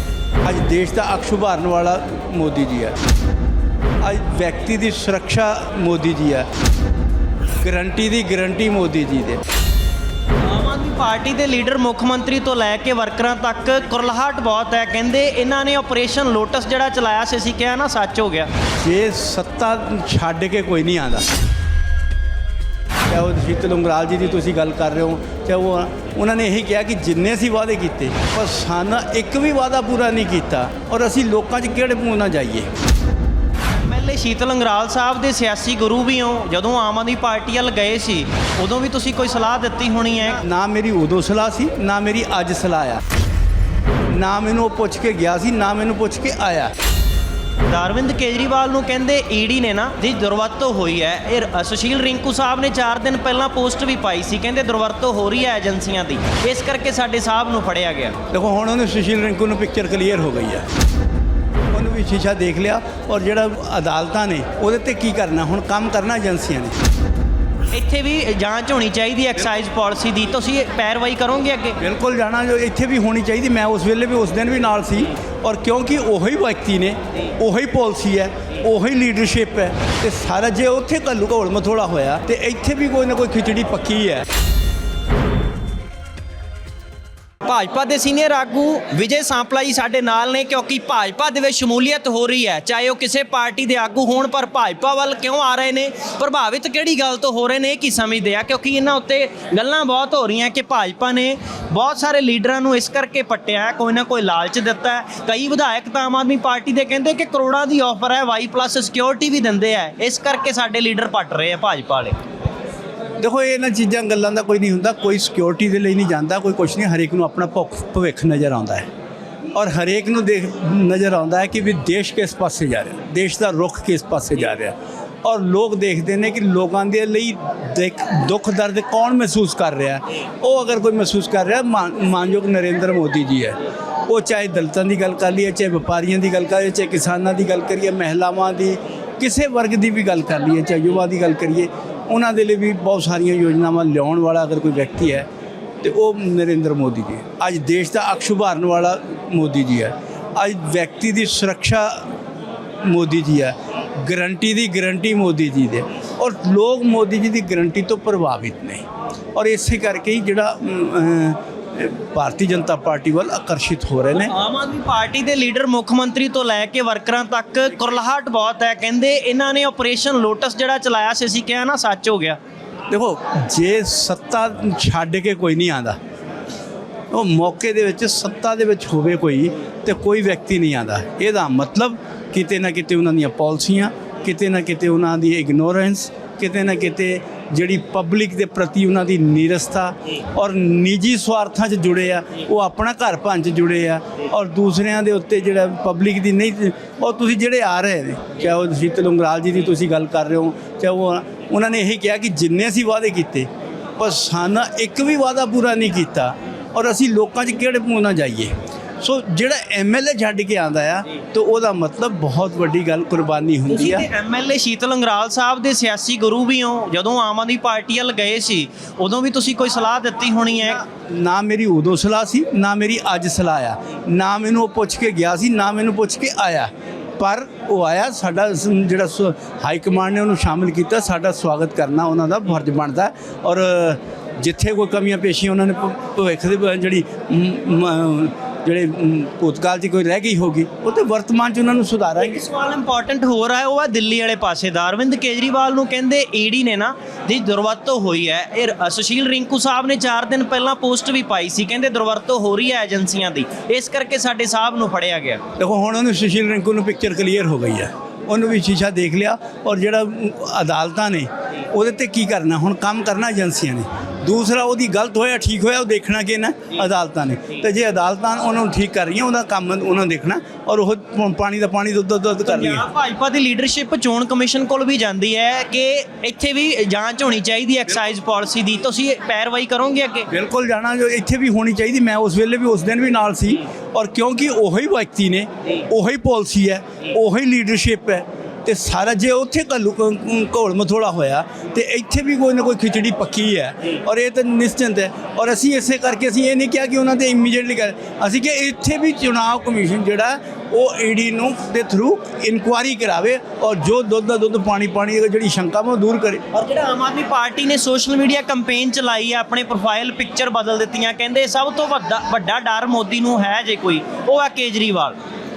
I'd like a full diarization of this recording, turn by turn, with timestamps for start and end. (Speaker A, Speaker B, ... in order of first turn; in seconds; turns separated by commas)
Speaker A: 0.4-2.9, Speaker A: 4.0-6.5, Speaker A: 7.6-9.4, Speaker B: 10.4-18.5, Speaker A: 18.8-21.3, Speaker A: 23.1-32.7, Speaker B: 33.7-40.4, Speaker A: 40.4-43.0, Speaker A: 44.1-46.7, Speaker B: 47.6-58.2, Speaker A: 58.3-60.6, Speaker A: 61.7-66.7, Speaker B: 67.7-71.8, Speaker A: 71.8-84.2, Speaker B: 87.4-112.2, Speaker A: 113.2-118.9, Speaker A: 119.5-145.3, Speaker A: 145.8-152.1, Speaker A: 152.8-164.3, Speaker B: 164.2-172.4, Speaker A: 172.9-176.0, Speaker A: 177.1-214.1, Speaker B: 213.7-220.8, Speaker A: 220.9-242.4, Speaker B: 242.2-255.4, Speaker A: 255.6-272.9, Speaker B: 272.4-280.3, Speaker A: 280.3-306.4, Speaker B: 306.5-315.1